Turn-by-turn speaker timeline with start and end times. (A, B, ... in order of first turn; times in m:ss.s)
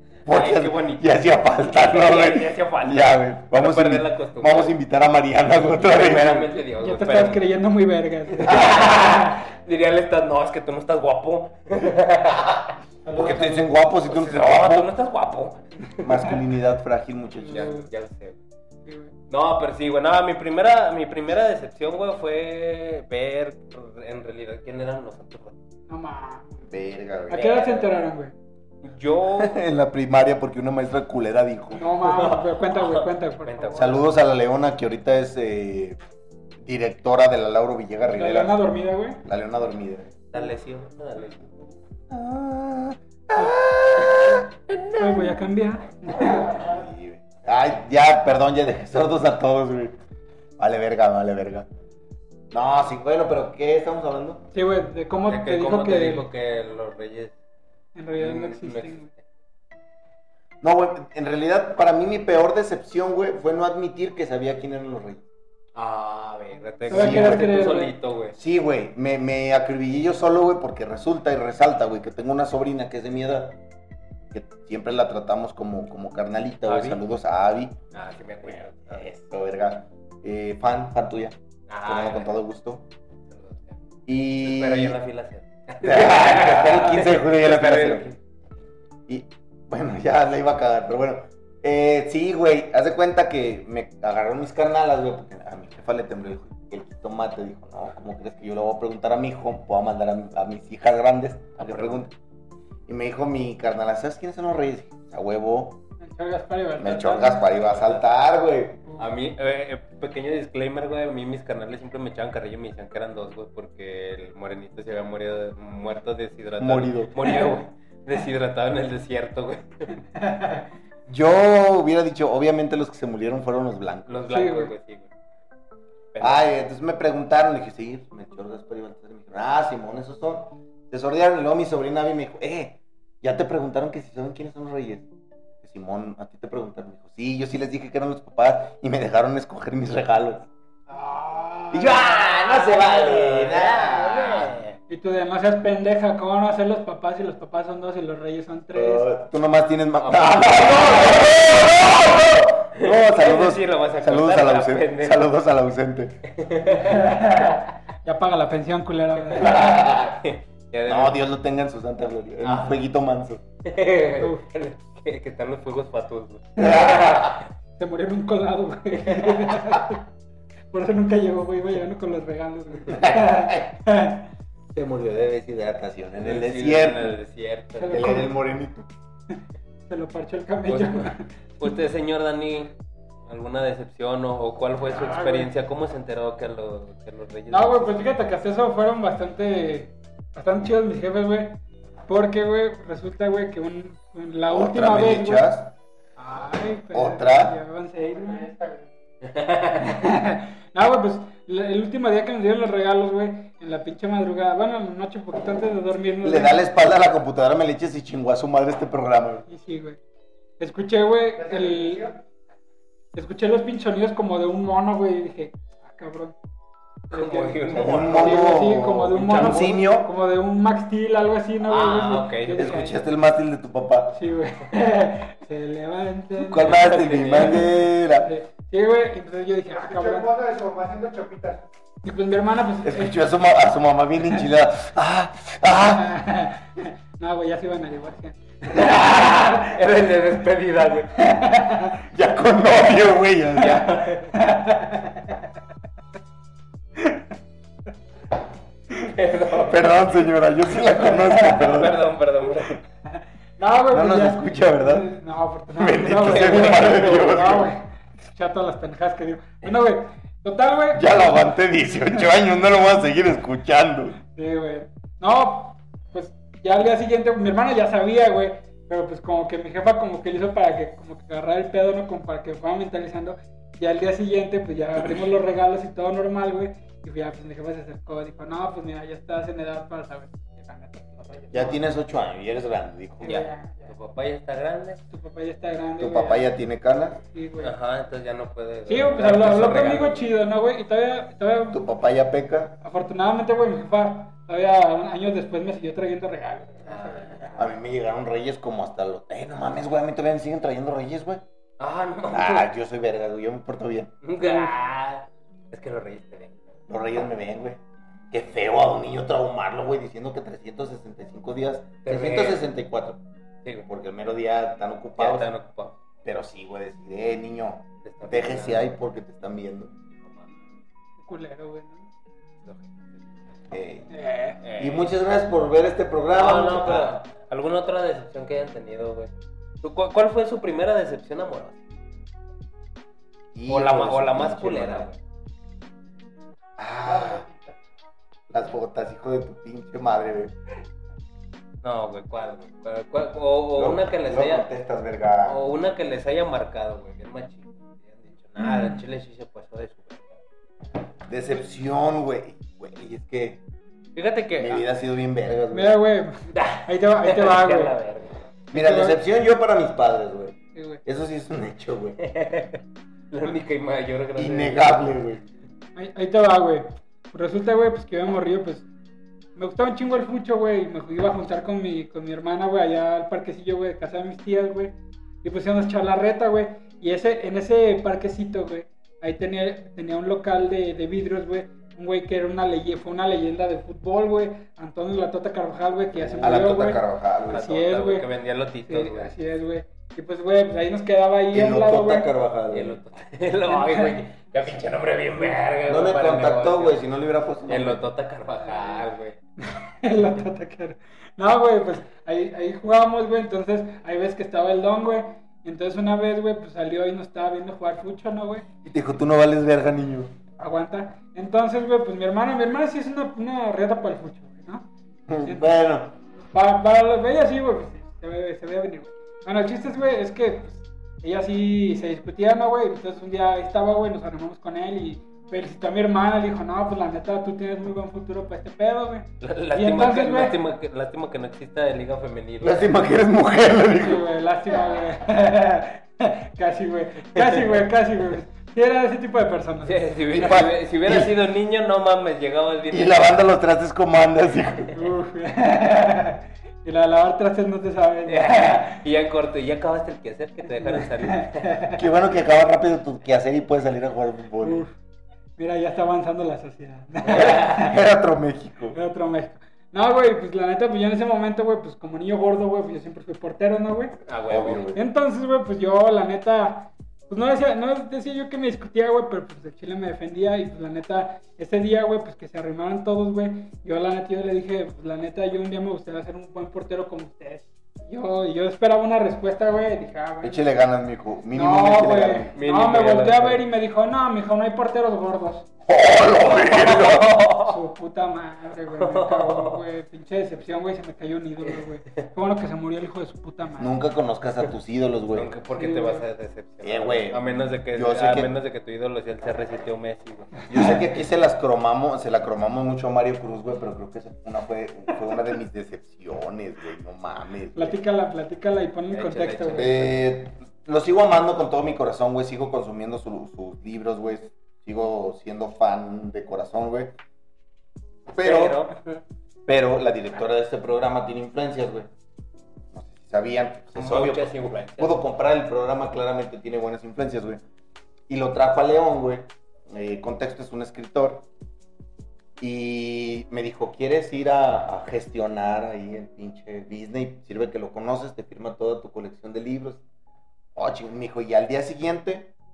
0:00.3-0:06.6 A
0:00.3-0:04.7 B
0:05.7-0:07.4 B
0:06.7-0:09.2 C
0:08.3-0:15.8 B
0:08.4-0:08.9 A
0:13.1-0:14.9 A
0:16.0-0:17.8 A
0:17.5-0:17.9 C
0:17.5-0:18.4 B
0:18.9-0:19.1 C
0:19.3-0:25.6 B
0:25.9-0:26.6 C
0:26.6-0:27.4 A
0:27.3-0:28.3 C
0:27.3-0:27.9 B
0:28.8-0:29.6 B
0:29.4-0:31.8 A
0:31.7-0:34.0 C
0:32.0-0:34.0 B
0:33.8-0:36.0 A
0:36.6-0:38.6 A
0:38.1-0:39.2 C
0:39.2-0:40.2 A
0:40.3-0:41.4 B
0:42.1-0:44.4 A
0:45.0-0:46.6 C
0:46.1-0:50.0 A
0:46.2-0:46.8 D
0:50.6-0:51.7 A
0:52.5-0:54.5 A
0:54.5-0:56.3 C
0:55.3-0:57.3 B
0:58.0-0:59.1 C
0:58.2-0:59.1 B
1:00.6-1:05.2 A
1:05.7-1:08.4 B
1:06.8-1:07.7 A
1:06.9-1:08.0 C
1:08.4-1:13.6 A
1:14.3-1:17.8 A
1:16.6-1:17.0 B
1:17.9-1:19.0 B
1:18.9-1:22.8 A
1:21.7-1:22.4 B
1:23.3-1:23.8 B
1:24.1-1:25.0 A
1:24.4-1:28.2 B
1:25.8-1:28.0 A
1:29.1-1:42.2 A
1:41.6-1:42.0 B
1:42.9-1:45.8 A
1:46.0-1:47.4 C
1:46.8-1:48.8 A
1:47.6-1:48.1 B
1:49.0-2:00.0 B
1:56.6-1:57.1 A
2:00.2-2:00.6 C
2:01.1-2:04.2 A
2:04.1-2:05.1 B
2:04.3-2:04.7 C
2:06.1-2:06.5 B
2:06.2-2:15.1 A
2:15.6-2:20.5 A
2:20.9-2:22.0 C
2:21.7-2:24.6 A
2:21.9-2:24.8 B
2:24.9-2:29.1 C
2:28.7-2:36.2 A
2:30.0-2:32.0 B
2:32.8-2:35.3 B
2:36.3-2:37.2 B
2:36.7-2:39.7 C
2:39.3-2:41.2 B
2:39.4-2:40.2 A
2:40.9-2:43.4 A
2:42.4-2:42.8 B
2:43.6-2:47.5 B
2:44.2-2:44.4 C
2:46.6-2:47.4 A
2:47.8-2:50.0 C
2:49.1-2:49.5 B
2:50.7-2:54.3 C
2:52.9-2:53.7 A
2:54.7-2:57.2 A
2:56.2-2:58.2 B
2:57.8-2:58.3 C
2:57.9-2:58.9 A
2:59.9-3:01.7 C
3:00.7-3:02.7 B
3:03.3-3:08.2 B
3:04.9-3:05.5 C
3:07.5-3:15.5 C
3:14.5-3:15.8 A
3:16.2-3:18.5 C
3:16.9-3:17.6 A
3:18.1-3:18.9 D
3:19.2-3:20.0 B
3:19.8-3:26.6 C
3:26.2-3:29.4 A
3:29.5-3:30.0 C
3:30.6-3:32.1 C
3:31.4-3:32.2 D
3:33.1-3:36.4 C
3:37.1-3:43.0 C
3:37.1-3:39.7 B
3:37.7-3:40.1 A
3:41.7-3:42.7 B
3:42.5-3:44.2 A
3:44.1-3:46.7 C
3:46.5-3:48.3 A
3:46.6-3:47.7 B
3:48.2-3:50.3 C
3:49.7-3:51.6 D
3:52.0-3:53.2 C
3:52.8-3:56.1 A
3:55.7-3:59.7 C
3:58.7-4:01.1 B
4:01.2-4:02.0 C
4:02.1-4:03.9 A
4:03.6-4:04.4 B
4:04.3-4:05.4 C
4:09.0-4:09.8 B
4:09.6-4:12.0 A
4:11.0-4:12.8 B
4:13.1-4:21.4 C
4:13.9-4:15.1 A
4:15.8-4:17.7 A
4:16.2-4:17.3 B
4:20.9-4:24.2 A
4:24.2-4:41.8 C
4:41.5-4:43.4 A
4:43.2-4:43.9 C
4:43.2-4:45.0 B
4:45.1-4:46.5 C
4:46.0-4:47.2 A
4:47.3-4:47.8 C
4:47.6-4:50.2 B
4:48.9-4:51.8 C
4:51.7-4:52.8 A
4:52.8-4:57.5 C
4:56.9-4:57.6 B
4:57.6-5:01.4 A
5:01.8-5:02.7 B
5:02.3-5:04.1 A
5:04.2-5:06.6 B
5:04.4-5:04.7 C
5:06.9-5:13.2 A
5:12.0-5:12.6 B
5:13.9-5:15.5 A
5:15.2-5:16.0 B
5:16.2-5:19.9 A
5:18.0-5:18.9 B
5:21.2-5:22.1 C
5:22.6-5:23.0 B
5:23.7-5:24.1 A
5:24.1-5:24.6 C
5:24.6-5:25.1 B
5:24.8-5:27.2 A
5:26.3-5:29.3 B
5:29.8-5:31.8 B
5:33.6-5:35.1 A
5:33.7-5:35.2 B
5:36.8-5:37.4 A
5:37.0-5:37.7 D
5:38.5-5:40.5 A
5:41.8-5:44.7 B
5:43.8-5:45.6 A
5:45.4-5:50.4 B
5:48.6-5:49.0 C
5:51.3-5:53.6 A
5:54.2-5:54.8 B
5:54.6-5:56.0 A
5:55.7-5:58.0 C
5:56.5-5:58.4 B
5:58.7-5:59.2 C
5:58.7-6:02.2 A
6:00.8-6:01.0 C
6:02.2-6:05.1 B
6:04.4-6:05.5 A
6:06.0-6:08.9 C
6:09.6-6:28.3 C
6:26.2-6:26.6 B
6:26.4-6:27.7 A
6:27.5-6:29.3 B
6:28.9-6:32.3 C
6:31.5-6:33.0 A
6:32.7-6:37.0 B
6:33.7-6:34.2 C
6:35.9-6:38.0 A
6:37.7-6:39.4 B
6:38.6-6:39.0 C
6:39.6-6:48.7 C
6:48.8-6:50.3 A
6:50.6-6:54.9 C
6:55.3-6:56.2 A
6:55.4-6:55.8 C
6:56.5-7:10.6 C
7:09.4-7:12.9 B
7:12.6-7:14.3 A
7:14.0-7:20.1 C
7:19.8-7:23.4 B
7:20.3-7:21.3 A
7:22.9-7:25.0 A
7:24.9-7:29.0 C
7:28.3-7:31.8 B
7:30.8-7:32.0 C
7:31.9-7:34.8 A
7:34.6-7:34.9 C
7:35.6-7:38.0 C
7:37.3-7:37.8 B
7:37.3-7:39.0 A
7:38.9-7:44.2 C
7:44.3-7:44.8 B
7:44.5-7:45.0 A
7:44.9-8:00.6 C
8:00.4-8:02.5 A
8:01.5-8:05.7 C
8:02.6-8:03.7 B
8:05.9-8:07.5 A
8:06.5-8:07.8 B
8:07.6-8:14.0 C
8:08.9-8:09.8 B
8:13.8-8:15.5 A
8:15.3-8:21.0 B
8:15.8-8:16.2 C
8:16.8-8:18.5 A
8:20.7-8:28.0 A
8:27.8-8:29.9 C
8:29.1-8:30.2 B
8:29.7-8:37.2 A
8:38.3-8:38.8 A
8:38.4-8:39.2 B
8:39.7-8:42.1 A
8:42.9-8:47.6 A
8:44.0-8:45.2 B
8:48.3-8:51.5 A
8:52.6-9:00.0 A
9:00.8-9:02.5 A